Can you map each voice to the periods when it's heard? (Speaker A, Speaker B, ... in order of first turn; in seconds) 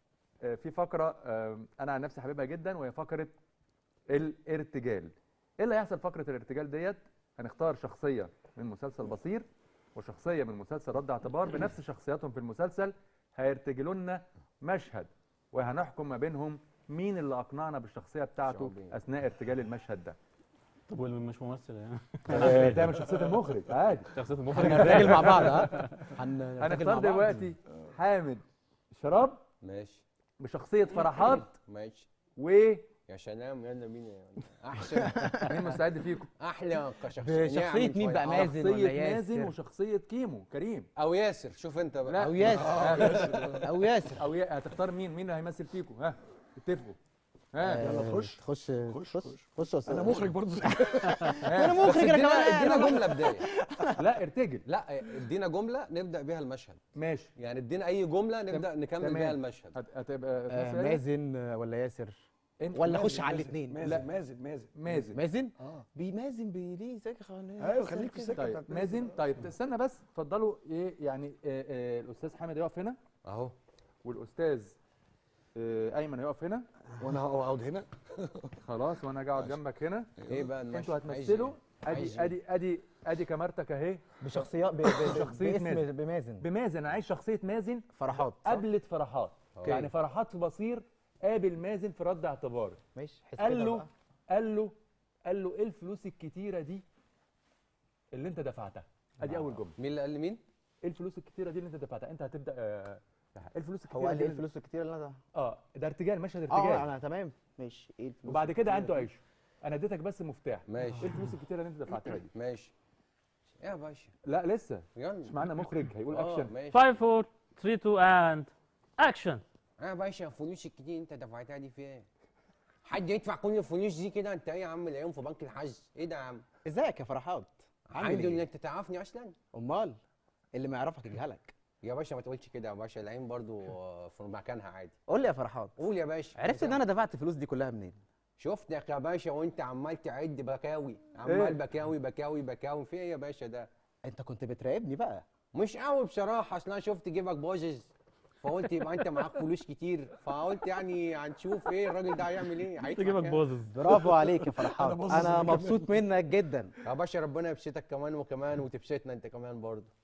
Speaker A: 0.4-3.3, 4.1-20.2, 22.3-25.7, 26.6-29.4, 30.4-31.5, 32.4-32.8, 35.4-36.3, 38.2-40.9, 42.1-47.0, 47.5-47.9, 51.4-52.2, 54.0-54.6, 56.9-57.3, 58.5-61.0, 62.6-63.2, 63.8-64.1, 64.7-65.2, 68.3-73.0, 74.0-74.8, 75.5-76.6, 78.6-80.1, 80.7-85.9, 86.4-92.8, 93.4-94.7, 95.2-96.8, 98.1-99.7, 100.8-104.4, 105.3-106.9, 108.3-112.3, 114.2-116.5, 141.3-141.6
Speaker B: 18.4-19.0, 29.6-30.0, 31.0-32.1, 33.1-35.8, 36.4-38.4, 41.0-42.5, 51.8-53.5, 54.7-56.8, 57.4-59.8, 73.2-73.5, 80.2-82.3, 89.5-89.9, 99.8-100.4, 110.7-111.2, 112.3-112.7, 113.6-114.1, 114.9-115.4, 116.1-116.8, 119.8-122.1, 122.8-126.4, 127.9-129.3, 131.8-135.0, 135.8-136.8, 138.4-143.7, 145.5-153.4, 156.8-159.9
Speaker C: 20.9-23.2, 24.1-26.0, 116.7-119.4, 152.9-153.8
Speaker D: 24.5-27.5, 35.2-35.6, 37.2-39.5, 42.1-44.3, 47.6-54.0, 60.5-64.0, 64.9-68.6, 84.2-86.5, 87.9-88.6, 92.9-93.9, 103.9-105.2, 106.5-109.0, 126.6-128.4, 129.5-130.0, 130.5-131.5, 135.1-135.8, 136.3-138.0, 144.0-145.2, 153.7-156.7
Speaker E: 42.6-43.6, 47.8-51.4, 62.9-64.8, 67.6-69.4, 77.0-78.5, 80.2-80.5, 154.4-156.0